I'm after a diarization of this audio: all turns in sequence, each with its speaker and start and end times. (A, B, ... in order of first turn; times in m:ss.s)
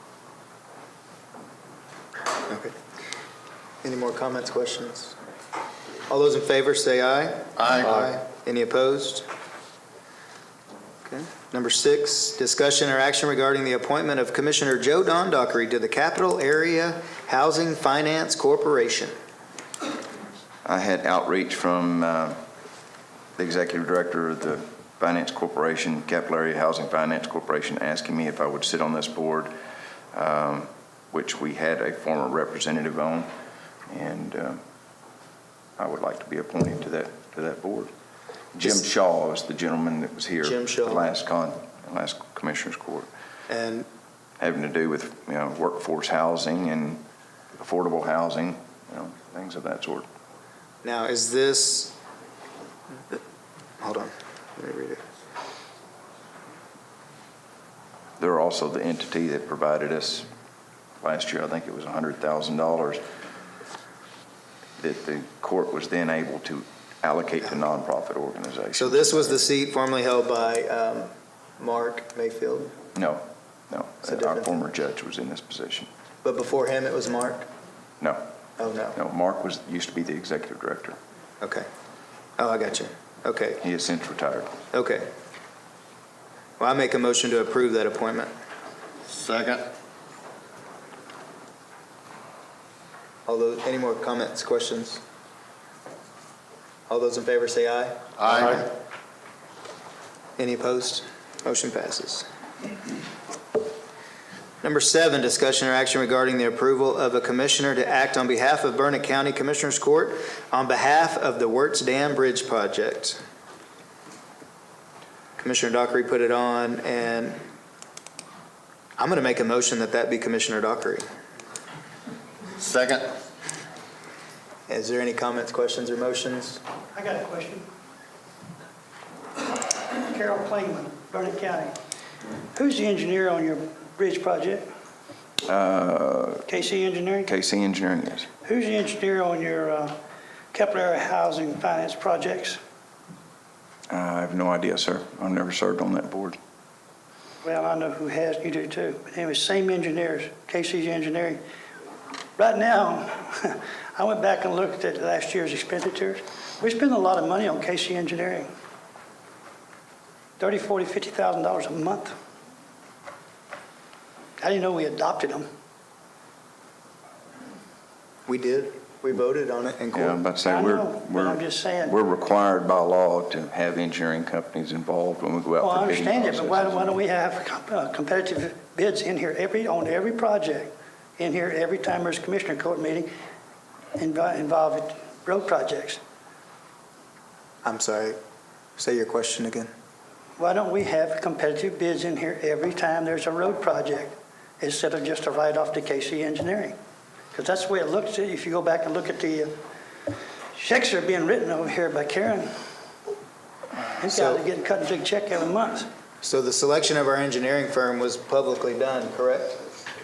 0:02.5-0:02.7 A
0:03.8-0:05.2 A
0:06.1-0:09.3 A
0:07.6-0:07.9 B
0:11.0-0:19.1 A
0:20.6-0:22.4 C
0:23.4-0:29.5 C
0:30.1-0:33.3 C
0:33.9-0:34.6 C
0:35.8-0:37.9 C
0:38.5-0:43.1 C
0:40.4-0:41.2 A
0:43.5-0:43.9 A
0:44.4-0:47.0 C
0:47.6-0:50.0 C
0:50.8-0:52.0 A
0:53.8-0:55.0 A
0:58.2-1:00.3 C
1:01.0-1:03.0 C
1:04.8-1:09.4 C
1:08.8-1:12.7 A
1:12.9-1:15.9 C
1:14.0-1:14.5 A
1:16.2-1:17.5 A
1:18.6-1:19.0 A
1:19.0-1:21.0 C
1:21.4-1:21.7 A
1:22.4-1:23.6 A
1:23.6-1:24.6 C
1:24.7-1:25.1 A
1:26.6-1:28.3 A
1:29.1-1:29.7 B
1:33.2-1:35.0 A
1:36.9-1:38.6 A
1:38.2-1:38.6 B
1:40.4-1:42.2 A
1:44.6-1:53.2 A
1:55.4-1:57.4 A
1:59.0-2:01.0 A
2:02.6-2:03.1 B
2:04.7-2:06.6 A
2:06.9-2:07.6 D
2:09.9-2:11.7 D
2:12.5-2:14.7 D
2:15.5-2:16.5 C
2:16.5-2:17.3 D
2:17.2-2:18.3 C
2:18.4-2:20.0 D
2:20.5-2:22.6 D
2:23.9-2:26.4 C
2:27.4-2:31.4 D
2:32.4-2:38.5 D
2:40.4-2:42.1 D
2:44.4-2:45.5 D
2:48.2-2:50.2 A
2:49.9-2:57.0 C
2:50.4-2:52.0 D
2:55.6-3:03.1 D
3:04.0-3:06.0 D
3:07.6-3:08.2 A
3:08.8-3:09.7 A
3:10.4-3:16.8 D
3:17.3-3:19.5 D
3:20.5-3:22.5 D
3:24.0-3:25.9 D
3:24.1-3:24.4 A
3:26.2-3:29.6 A